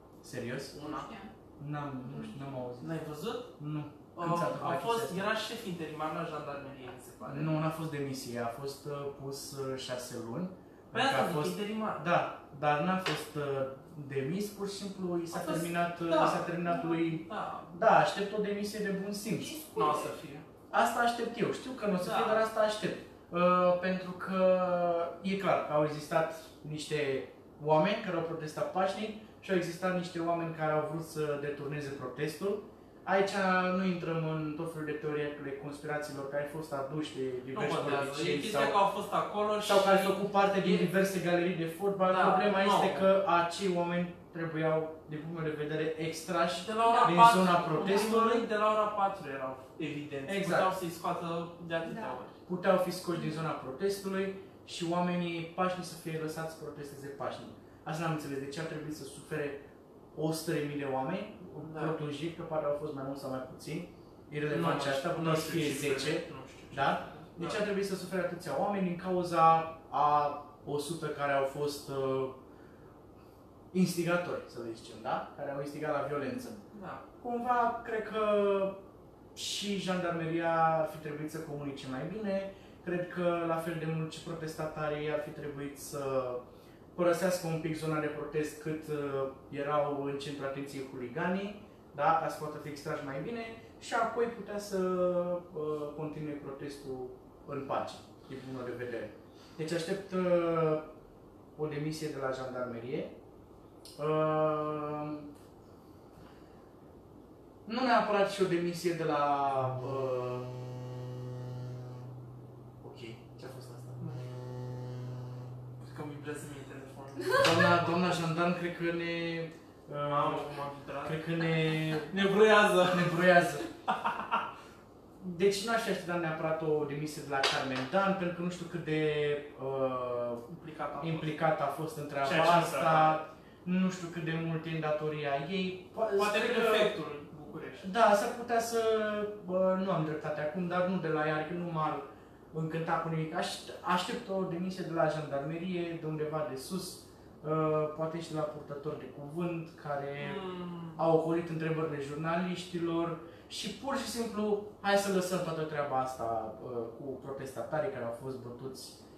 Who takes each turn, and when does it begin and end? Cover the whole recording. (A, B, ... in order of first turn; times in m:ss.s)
0:00.2-0:00.8 A
0:00.7-0:01.1 B
0:00.7-0:01.3 C
0:01.6-0:02.9 A
0:02.8-0:03.5 B
0:03.6-0:05.2 A
0:04.1-0:07.6 B
0:07.2-0:19.6 A
0:10.9-0:12.0 B
0:15.3-0:17.8 B
0:19.2-0:20.2 C
0:19.7-0:20.4 B
0:20.7-0:38.8 A
0:22.0-0:22.4 B
0:37.5-0:40.9 B
0:39.6-0:48.4 A
0:42.0-0:43.1 B
0:46.6-0:52.4 B
0:46.8-0:47.2 C
0:50.2-0:50.7 A
0:51.8-0:52.2 C
0:52.4-0:59.6 A
1:00.1-1:12.4 A
1:01.6-1:02.0 B
1:04.5-1:07.6 B
1:13.7-1:16.6 A
1:16.7-1:17.0 B
1:17.2-1:18.8 A
1:19.3-1:26.4 A
1:26.9-1:40.9 A
1:41.6-1:43.1 A
1:44.0-1:45.3 A
1:47.6-1:50.5 A
1:52.8-1:54.0 A
1:54.0-1:54.2 B
1:55.8-1:57.8 B
1:57.3-2:02.4 A
2:00.0-2:01.2 B
2:02.1-2:04.4 B
2:02.9-2:03.7 A
2:05.2-2:10.4 A
2:10.5-2:11.4 B
2:11.0-2:16.9 A
2:12.2-2:13.2 B
2:16.1-2:17.9 B
2:17.8-2:30.4 A
2:30.2-2:31.0 B
2:31.0-2:39.0 A